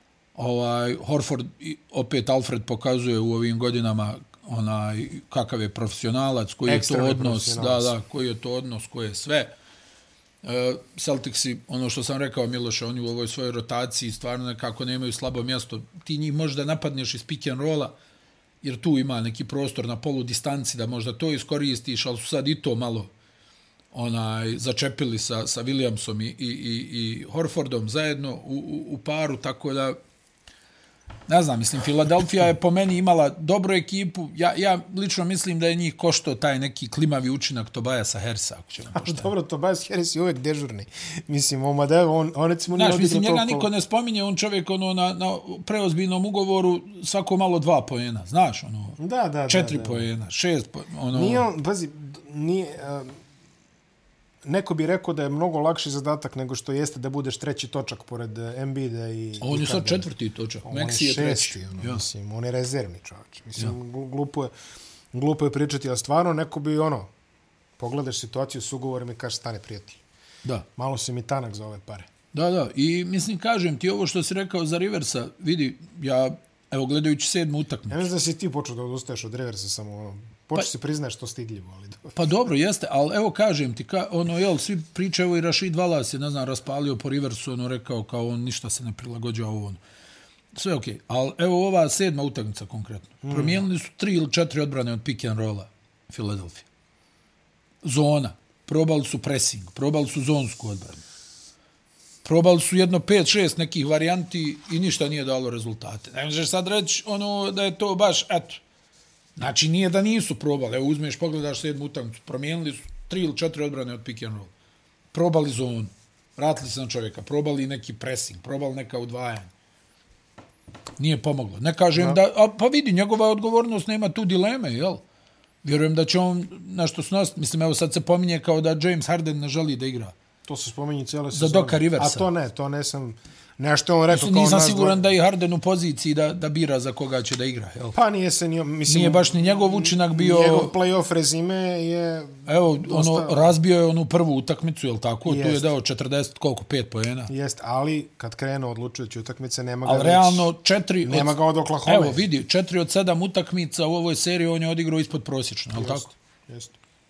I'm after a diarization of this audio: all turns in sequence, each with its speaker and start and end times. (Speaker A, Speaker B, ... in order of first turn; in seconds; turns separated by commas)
Speaker A: 0.3-9.5, Speaker B: 6.7-7.9, Speaker A: 10.4-17.9, Speaker A: 18.6-23.1, Speaker A: 23.9-30.0, Speaker A: 31.3-39.3, Speaker B: 38.9-43.7, Speaker A: 42.7-51.5, Speaker B: 49.0-50.1, Speaker B: 51.1-53.1, Speaker B: 54.4-60.1, Speaker A: 59.4-62.0, Speaker B: 60.6-64.5, Speaker B: 65.1-67.1, Speaker B: 67.8-70.0, Speaker B: 70.8-72.1, Speaker A: 72.3-78.1, Speaker B: 77.9-82.2, Speaker A: 82.1-89.8, Speaker A: 90.5-96.6, Speaker B: 93.2-93.6, Speaker A: 97.8-101.0, Speaker A: 102.2-108.6, Speaker A: 109.4-114.5, Speaker A: 115.1-119.5, Speaker A: 121.0-125.0, Speaker A: 125.6-130.1, Speaker B: 130.4-135.0, Speaker A: 131.3-132.3, Speaker A: 134.1-138.0, Speaker B: 137.9-143.5, Speaker A: 138.9-140.7, Speaker A: 142.4-147.3, Speaker B: 145.2-145.7, Speaker B: 147.3-150.5, Speaker A: 149.8-156.1, Speaker B: 151.1-152.2, Speaker B: 155.7-156.7